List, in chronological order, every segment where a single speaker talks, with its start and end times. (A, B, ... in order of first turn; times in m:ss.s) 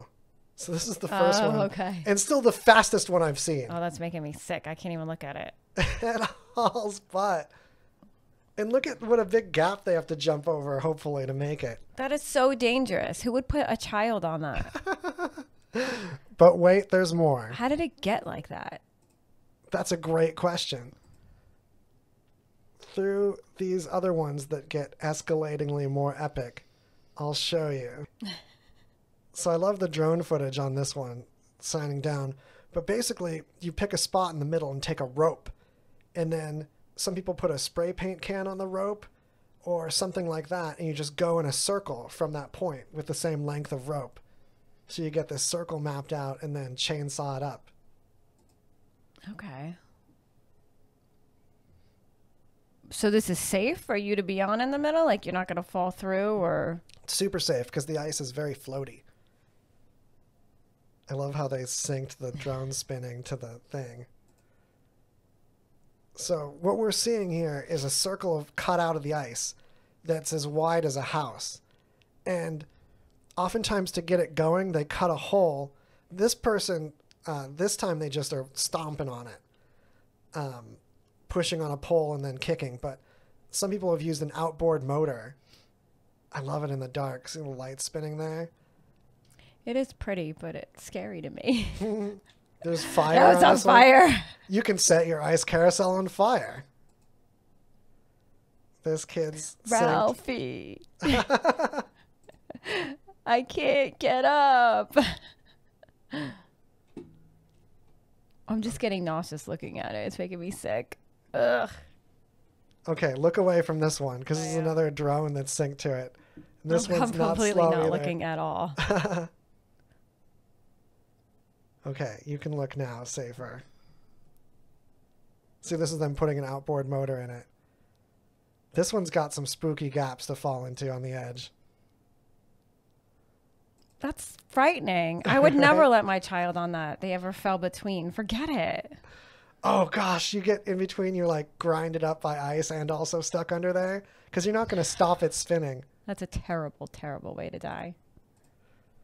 0:00.6-0:03.8 A
0:01.1-0:02.1 B
0:03.7-0:05.6 B
0:05.8-0:07.5 A
0:08.6-0:11.8 A
0:12.0-0:14.7 B
0:14.8-0:17.6 A
0:17.5-0:18.8 B
0:19.7-0:20.9 A
0:22.8-0:26.7 A
0:27.2-0:28.1 A
0:29.3-0:35.5 A
0:36.2-0:39.1 A
0:39.6-0:44.2 A
0:44.9-0:47.7 A
0:49.3-0:49.8 B
0:52.9-0:56.8 B
0:57.0-0:59.0 A
1:01.1-1:04.1 A
1:06.2-1:11.6 A
1:12.3-1:12.7 A
1:13.4-1:19.4 A
1:20.4-1:25.4 A
1:26.3-1:28.5 A
1:29.6-1:31.9 B
1:31.8-1:33.9 A
1:32.9-1:34.3 B
1:34.5-1:36.6 A
1:38.8-1:40.2 A
1:39.6-1:41.3 B
1:41.1-1:41.8 A
1:42.6-1:45.2 B
1:48.5-1:51.7 B
1:52.9-1:58.1 A
1:54.3-1:54.8 B
1:56.7-1:58.8 B
1:58.8-1:59.3 A
2:01.8-2:03.6 A
2:05.6-2:07.5 A
2:08.7-2:11.5 A
2:14.0-2:19.0 B
2:15.5-2:15.8 A
2:19.6-2:25.8 A
2:26.1-2:28.0 B